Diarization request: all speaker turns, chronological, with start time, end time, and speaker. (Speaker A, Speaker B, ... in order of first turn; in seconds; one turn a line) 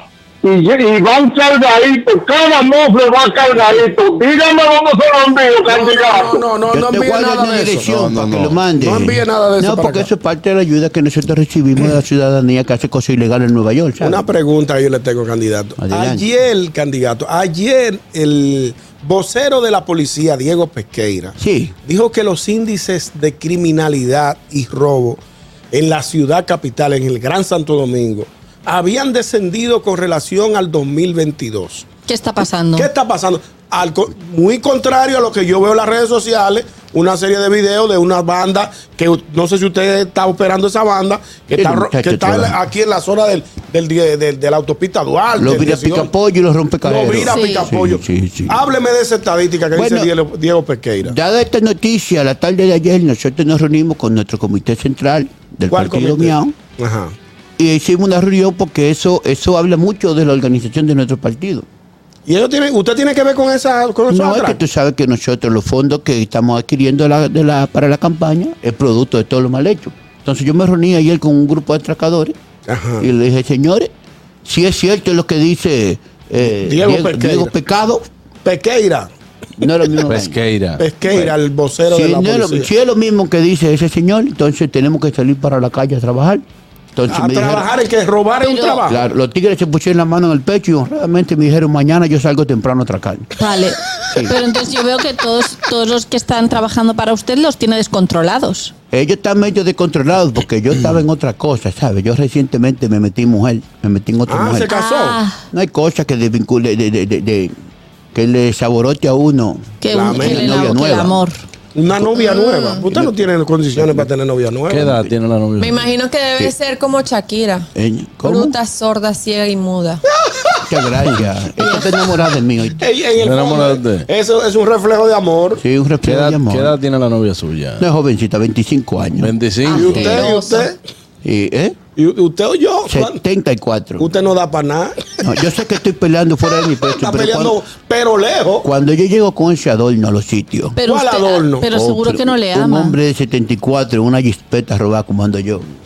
Speaker A: 0.5-6.4
Speaker B: 5.7-7.9
Speaker C: 6.7-14.2
Speaker D: 7.9-8.6
Speaker B: 8.8-10.1
Speaker B: 14.0-31.9
Speaker C: 15.8-16.3
Speaker C: 21.4-21.8
Speaker E: 32.1-32.9
Speaker B: 32.7-46.1
Speaker C: 41.5-42.6
Speaker C: 45.4-48.6
Speaker B: 46.8-51.1
Speaker E: 47.2-47.7
Speaker C: 49.7-50.1
Speaker C: 51.0-56.5
Speaker B: 55.7-57.1
Speaker C: 57.6-61.7
Speaker B: 62.3-64.6
Speaker C: 64.1-72.4
Speaker B: 72.7-73.1
Speaker C: 73.0-73.9
Speaker C: 74.5-78.0
Speaker B: 76.4-77.5
Speaker B: 78.4-79.1
Speaker C: 79.6-80.4
Speaker D: 80.1-81.3
Speaker B: 80.8-82.7
Speaker C: 81.9-86.4
Speaker C: 87.0-87.7
Speaker B: 87.1-89.0
Speaker E: 88.4-88.8
Speaker C: 88.9-93.3
Speaker E: 93.4-98.7
Speaker C: 94.1-94.4
Speaker C: 98.9-104.7
Speaker B: 104.3-105.2
Speaker E: 104.7-105.4
Speaker C: 105.5-107.5
Speaker C: 108.1-111.2
Speaker E: 109.8-111.4
Speaker B: 109.9-110.8
Speaker B: 111.8-115.0
Speaker F: 112.2-112.9
Speaker D: 114.7-115.8
Speaker F: 115.6-117.7
Speaker C: 117.8-118.6
Speaker F: 118.2-120.0
Speaker C: 120.7-122.8
Speaker F: 121.6-121.8
Speaker B: 122.8-125.6
Speaker D: 123.2-124.1
Speaker C: 125.6-126.8
Speaker D: 126.0-127.8
Speaker C: 127.8-129.3
Speaker D: 129.2-130.4
Speaker E: 129.7-130.7
Speaker B: 129.7-130.8
Speaker C: 129.9-130.2
Speaker C: 131.2-131.8
Speaker B: 132.0-133.2
Speaker C: 132.9-134.1
Speaker B: 134.0-135.0
Speaker C: 135.2-137.6
Speaker B: 136.9-138.7
Speaker C: 138.6-140.8
Speaker E: 140.8-143.0
Speaker B: 140.8-141.7
Speaker C: 141.7-145.7